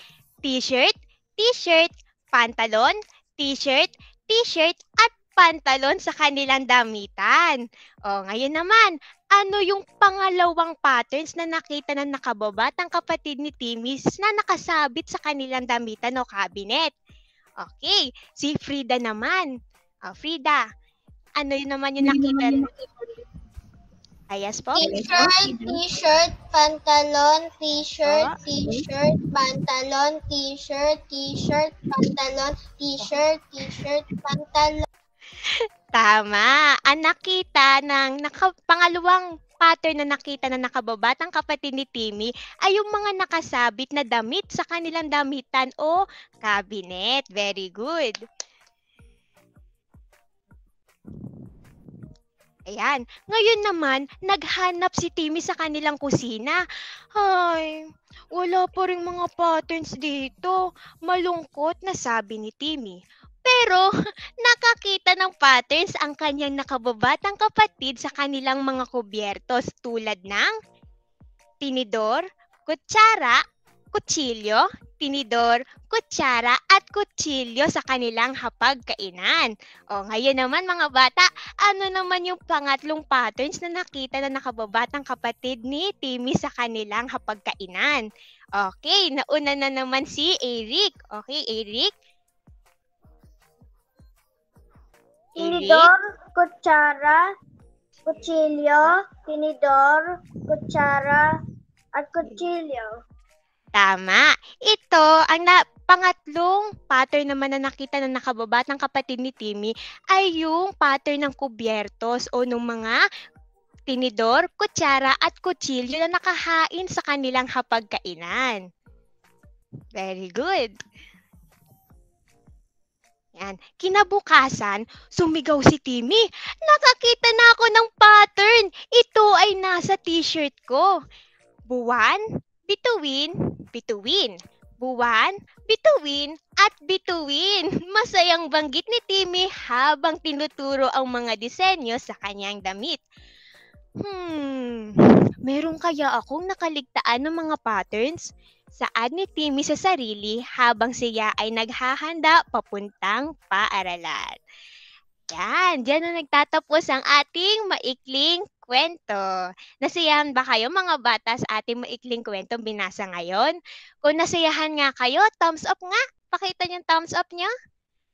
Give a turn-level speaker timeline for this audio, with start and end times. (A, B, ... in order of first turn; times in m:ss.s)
0:00.4-0:16.9 A
0:17.6-0:19.5 A
0:20.1-0:20.6 A
0:21.4-0:22.7 A
0:24.3-0:25.0 A
0:24.7-0:34.8 B
0:36.0-0:48.2 A
0:52.7-0:56.6 A
0:57.1-0:57.8 A
0:58.3-1:03.8 A
1:04.4-1:10.5 A
1:11.6-1:13.4 A
1:13.9-1:28.0 A
1:28.6-1:31.9 A
1:35.4-1:37.2 C
1:35.4-1:35.9 A
1:38.1-1:41.2 C
1:42.0-1:42.9 C
1:43.8-1:53.0 A
1:53.9-1:58.6 A
2:00.0-2:00.7 A
2:03.4-2:10.8 A
2:11.7-2:23.0 A
2:24.0-2:24.7 A
2:25.5-2:28.2 A
2:28.8-2:34.3 A
2:35.3-2:39.2 A
2:39.8-2:47.5 A